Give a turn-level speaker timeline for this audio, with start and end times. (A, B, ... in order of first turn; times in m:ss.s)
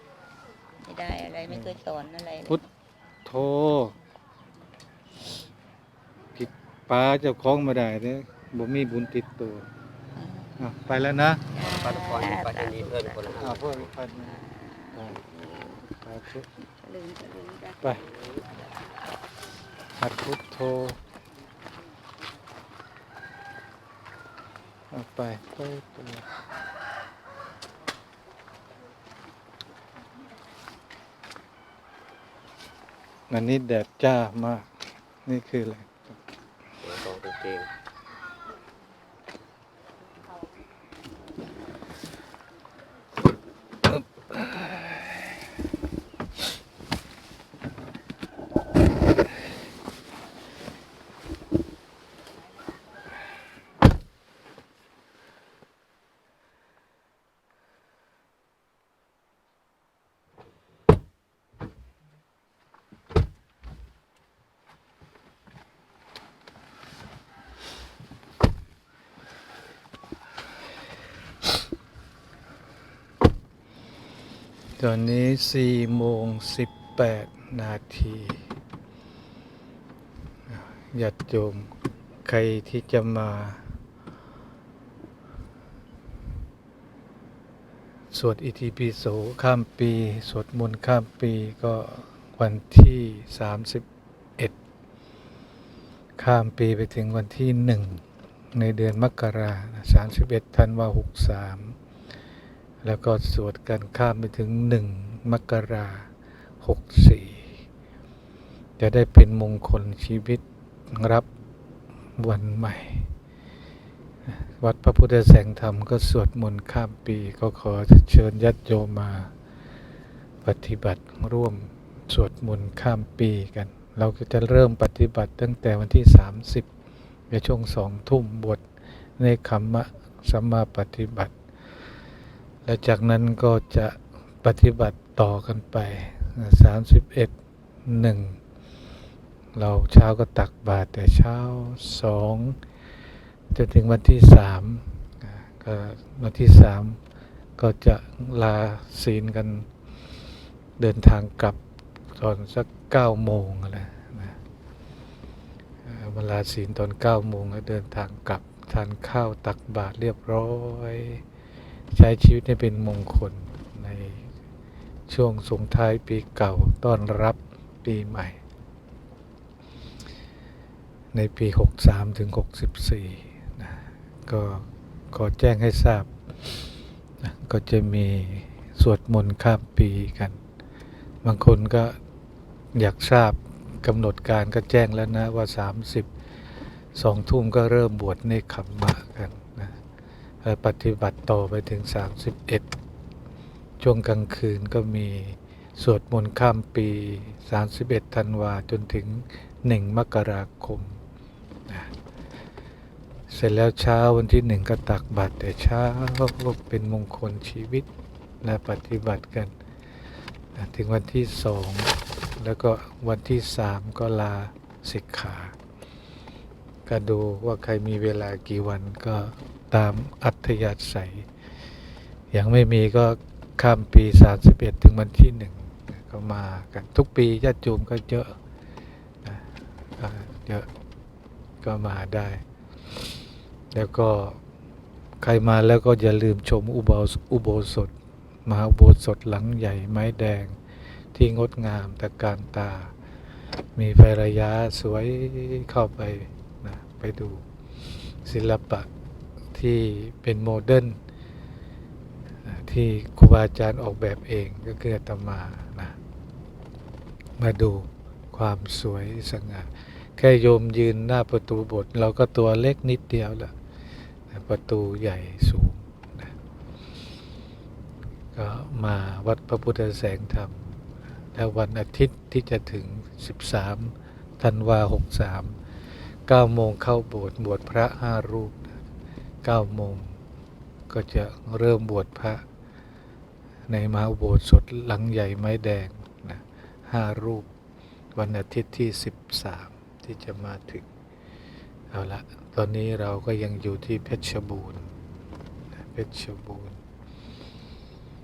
0:00.8-0:02.6 A
0:03.2-0:03.9 B
0:06.4-0:09.6 B
0:10.2-0:10.5 A
0:10.6-0:11.4 B
0:11.5-0:13.5 A
0:11.8-0:14.4 C
0:13.4-0:14.4 B
0:14.8-0:15.9 A
0:16.0-0:16.4 B
0:16.6-0:18.4 A
0:20.0-0:21.0 B
0:24.9-0:26.2 B
0:33.3-0:34.6 B
0:35.2-0:36.2 B
0:36.8-0:37.7 C
1:14.8-1:18.4 B
1:20.5-1:21.7 B
1:22.2-1:23.7 B
1:28.1-1:33.8 B
1:36.2-1:38.0 B
1:38.5-1:41.8 B
1:42.8-1:46.1 B
1:46.6-1:47.6 B
1:48.8-1:51.2 B
1:52.2-1:53.1 B
1:54.3-1:59.3 B
2:00.4-2:06.6 B
2:07.3-2:08.6 B
2:09.2-2:11.3 B
2:12.6-2:17.3 B
2:17.8-2:18.4 B
2:19.5-2:22.6 B
2:23.5-2:27.0 B
2:27.6-2:29.7 B
2:30.8-2:31.6 B
2:32.2-2:34.4 B
2:35.8-2:41.2 B
2:41.9-2:44.2 B
2:45.1-2:48.4 B
2:51.1-2:56.6 B
2:57.2-3:00.4 B
3:01.2-3:02.0 B
3:02.7-3:06.1 B
3:06.9-3:09.8 B
3:10.4-3:12.6 B
3:13.8-3:21.0 B
3:23.3-3:27.8 B
3:28.4-3:29.5 B
3:30.5-3:35.5 B
3:36.8-3:41.3 B
3:42.3-3:48.4 B
3:50.0-3:50.7 B
3:51.6-3:52.4 B
3:53.7-3:54.4 B
3:55.2-3:57.9 B
3:58.4-4:00.5 B
4:01.1-4:02.9 B
4:03.8-4:07.4 B
4:08.2-4:08.9 B
4:09.5-4:11.0 B
4:12.4-4:16.0 B
4:17.4-4:23.5 B
4:24.3-4:26.3 B
4:28.3-4:30.8 B
4:31.3-4:35.6 B
4:36.3-4:38.8 B
4:39.4-4:40.1 B
4:40.9-4:42.4 B
4:43.7-4:47.5 B
4:48.1-4:50.8 B
4:51.9-4:54.9 B
4:55.8-4:56.8 B